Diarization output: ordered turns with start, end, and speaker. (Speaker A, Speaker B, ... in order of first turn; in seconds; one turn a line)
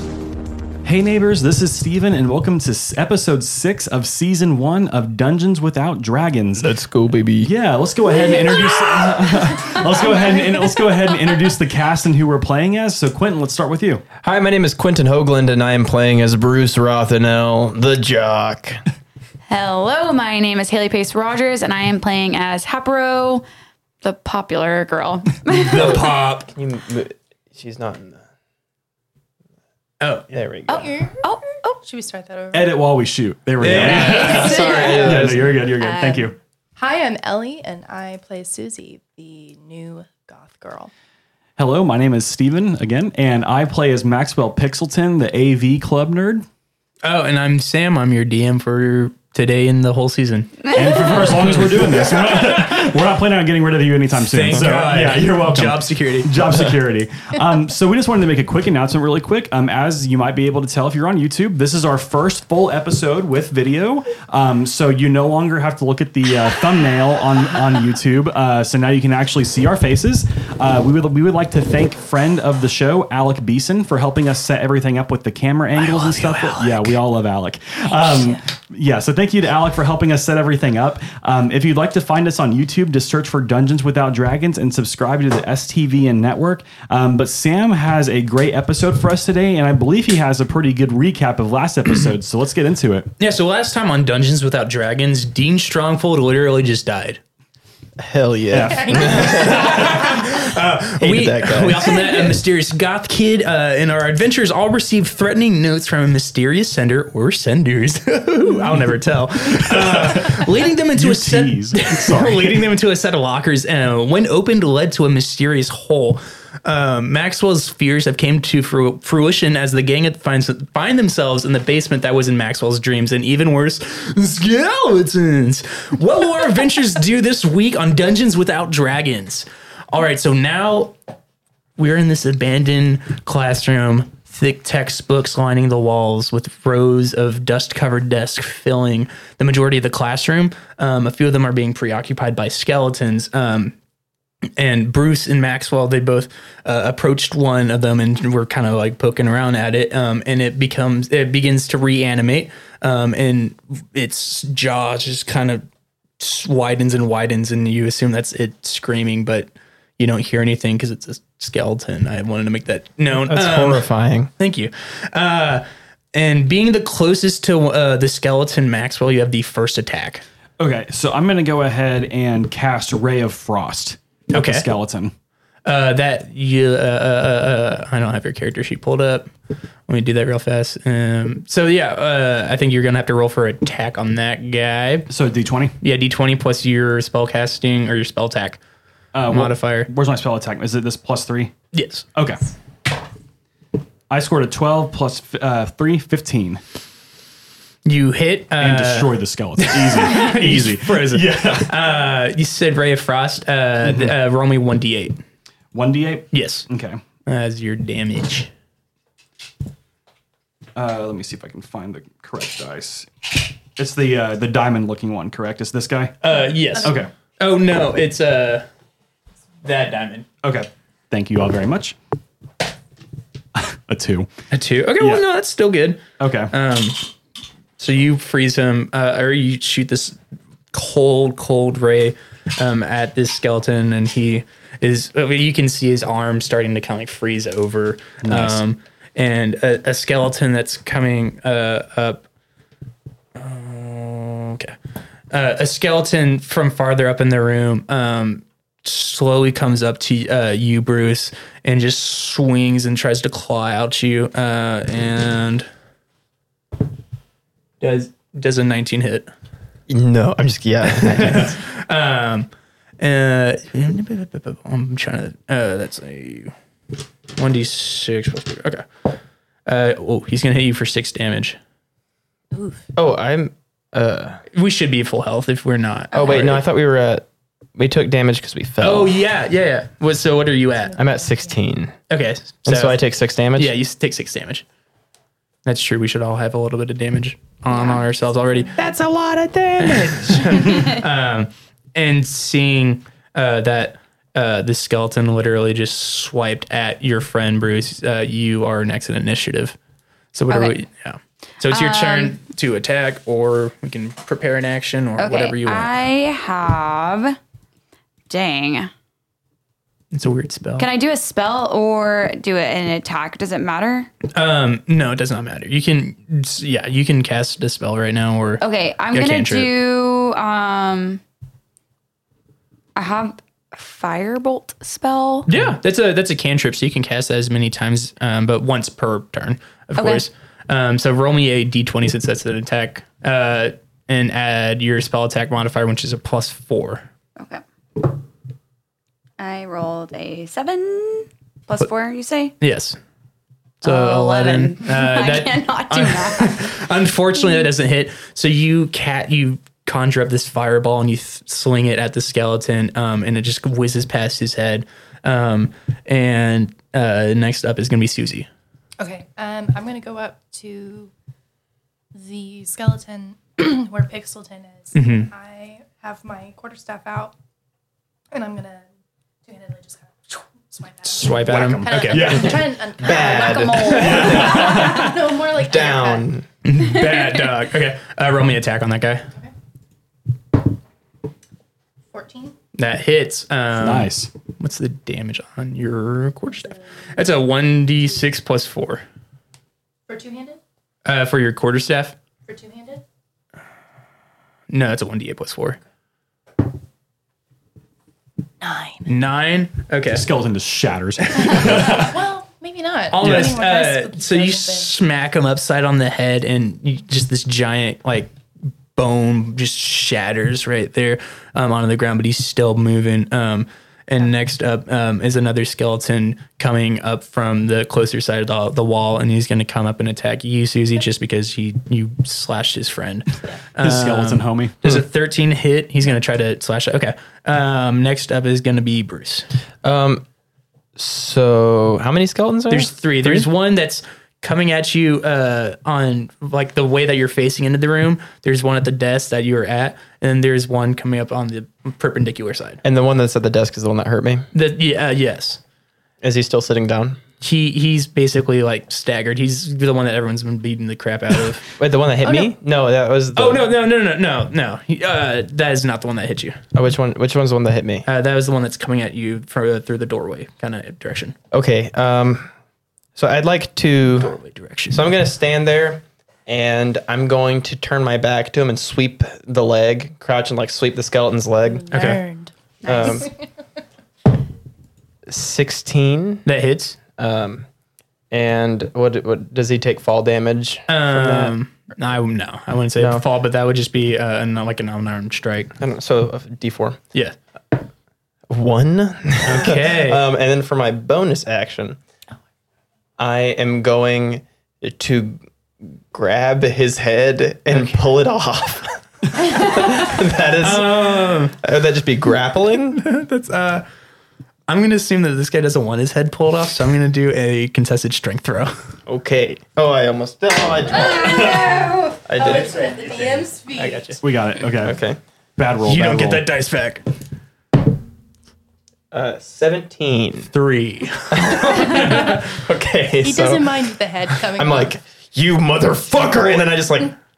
Speaker A: 0.8-6.7
Speaker B: 6.6-7.5
Speaker A: 7.4-14.0
Speaker B: 14.2-18.8
Speaker C: 19.5-23.5
Speaker C: 24.0-26.0
Speaker D: 25.5-26.5
Speaker B: 25.9-28.2
Speaker D: 30.0-30.4
Speaker B: 30.3-31.0
Speaker C: 30.7-31.8
Speaker E: 30.7-31.2
Speaker E: 31.8-32.8
Speaker A: 32.5-36.4
Speaker D: 33.6-34.5
Speaker B: 33.6-35.6
Speaker E: 34.2-40.9
Speaker C: 34.2-35.0
Speaker A: 41.6-46.5
Speaker D: 47.0-51.6
Speaker A: 50.7-93.1
Speaker D: 54.3-56.7
Speaker D: 75.8-76.9
Speaker D: 93.2-97.2
Speaker B: 98.0-100.4
Speaker A: 98.5-99.3
Speaker E: 98.8-99.8
Speaker D: 99.1-131.0
Speaker B: 101.0-102.3
Speaker A: 109.6-112.8
Speaker D: 131.8-143.8
Speaker D: 144.6-155.7
Speaker D: 156.2-163.9
Speaker B: 163.1-164.3
Speaker D: 164.4-170.2
Speaker A: 170.6-175.1
Speaker D: 174.3-174.7
Speaker D: 175.7-179.3
Speaker D: 179.9-185.1
Speaker A: 185.1-185.8
Speaker D: 185.8-188.6
Speaker A: 189.1-191.5
Speaker D: 189.3-189.9
Speaker D: 191.7-192.1
Speaker A: 192.2-192.4
Speaker A: 194.1-196.6
Speaker D: 197.8-205.2
Speaker A: 198.6-202.0
Speaker A: 203.8-204.2
Speaker A: 205.7-207.0
Speaker D: 206.3-206.7
Speaker D: 207.3-208.5
Speaker A: 210.8-216.2
Speaker D: 216.2-218.7
Speaker A: 216.8-217.1
Speaker D: 219.6-220.3
Speaker A: 220.4-222.0
Speaker A: 223.6-224.3
Speaker D: 224.5-227.0
Speaker A: 225.0-225.2
Speaker A: 226.2-226.5
Speaker D: 227.8-230.2
Speaker D: 230.7-242.2
Speaker A: 238.2-238.6
Speaker D: 243.4-244.8
Speaker D: 245.3-255.7
Speaker D: 257.8-259.3
Speaker B: 259.9-261.6
Speaker D: 260.9-266.5
Speaker D: 267.4-268.9
Speaker D: 269.7-271.6
Speaker E: 272.5-272.9
Speaker B: 272.9-274.4
Speaker D: 274.5-276.6
Speaker C: 276.1-276.5
Speaker B: 276.1-277.2
Speaker B: 277.8-279.2
Speaker D: 278.8-281.0
Speaker E: 280.9-281.6
Speaker B: 281.0-281.9
Speaker D: 282.1-283.0
Speaker B: 282.6-283.8
Speaker D: 283.6-284.6
Speaker D: 285.6-288.9
Speaker E: 288.4-289.0
Speaker B: 288.8-290.1
Speaker D: 289.8-299.8
Speaker D: 300.3-305.9
Speaker C: 300.5-300.8
Speaker C: 301.7-302.4
Speaker C: 305.2-307.4
Speaker C: 308.3-308.9
Speaker D: 310.1-310.9
Speaker C: 310.8-314.1
Speaker D: 314.3-319.7
Speaker C: 318.6-321.2
Speaker C: 322.9-325.5
Speaker D: 325.5-337.1
Speaker C: 330.0-330.2
Speaker C: 337.4-337.6
Speaker C: 339.4-342.6
Speaker D: 342.6-343.0
Speaker D: 343.8-358.5
Speaker C: 343.8-346.8
Speaker E: 359.0-361.1
Speaker E: 362.1-367.4
Speaker D: 364.9-365.3
Speaker E: 368.3-368.9
Speaker E: 369.4-376.3
Speaker D: 371.1-375.1
Speaker A: 371.5-372.7
Speaker B: 372.1-376.5
Speaker C: 373.1-375.1
Speaker A: 373.9-374.8
Speaker D: 376.6-379.2
Speaker E: 382.1-382.6
Speaker D: 382.8-389.0
Speaker A: 383.8-384.3
Speaker E: 390.1-390.6
Speaker D: 391.1-392.2
Speaker E: 392.5-393.0
Speaker D: 394.7-395.8
Speaker E: 398.6-399.1
Speaker D: 399.1-400.2
Speaker A: 400.1-402.2
Speaker D: 401.2-402.1
Speaker E: 401.8-404.9
Speaker D: 403.1-408.3
Speaker A: 403.2-403.6
Speaker D: 408.9-429.5
Speaker A: 423.8-425.1
Speaker B: 429.8-430.2
Speaker B: 431.0-433.5
Speaker D: 432.7-442.8
Speaker B: 442.8-444.5
Speaker D: 444.5-445.6
Speaker B: 446.2-447.2
Speaker D: 447.4-451.7
Speaker B: 451.8-453.7
Speaker D: 453.4-456.6
Speaker B: 456.7-458.1
Speaker D: 458.1-461.4
Speaker B: 461.5-462.5
Speaker B: 463.2-464.3
Speaker D: 464.2-465.1
Speaker B: 464.9-472.1
Speaker E: 471.7-473.3
Speaker D: 471.9-472.2
Speaker B: 472.9-473.3
Speaker B: 475.3-476.4
Speaker D: 476.4-477.0
Speaker B: 477.2-477.7
Speaker B: 478.3-481.6
Speaker D: 480.9-485.7
Speaker B: 485.8-487.0
Speaker B: 488.5-492.0
Speaker D: 489.4-490.2
Speaker B: 493.2-503.0
Speaker D: 500.6-501.6
Speaker D: 503.0-503.9
Speaker D: 504.7-508.7
Speaker B: 509.1-512.8
Speaker E: 511.0-514.2
Speaker C: 511.4-511.8
Speaker D: 512.4-514.2
Speaker A: 514.2-515.0
Speaker B: 514.8-515.2
Speaker A: 515.6-516.5
Speaker D: 515.8-517.0
Speaker B: 519.1-520.5
Speaker D: 520.5-522.6
Speaker B: 521.3-523.9
Speaker E: 523.2-524.9
Speaker B: 524.4-527.2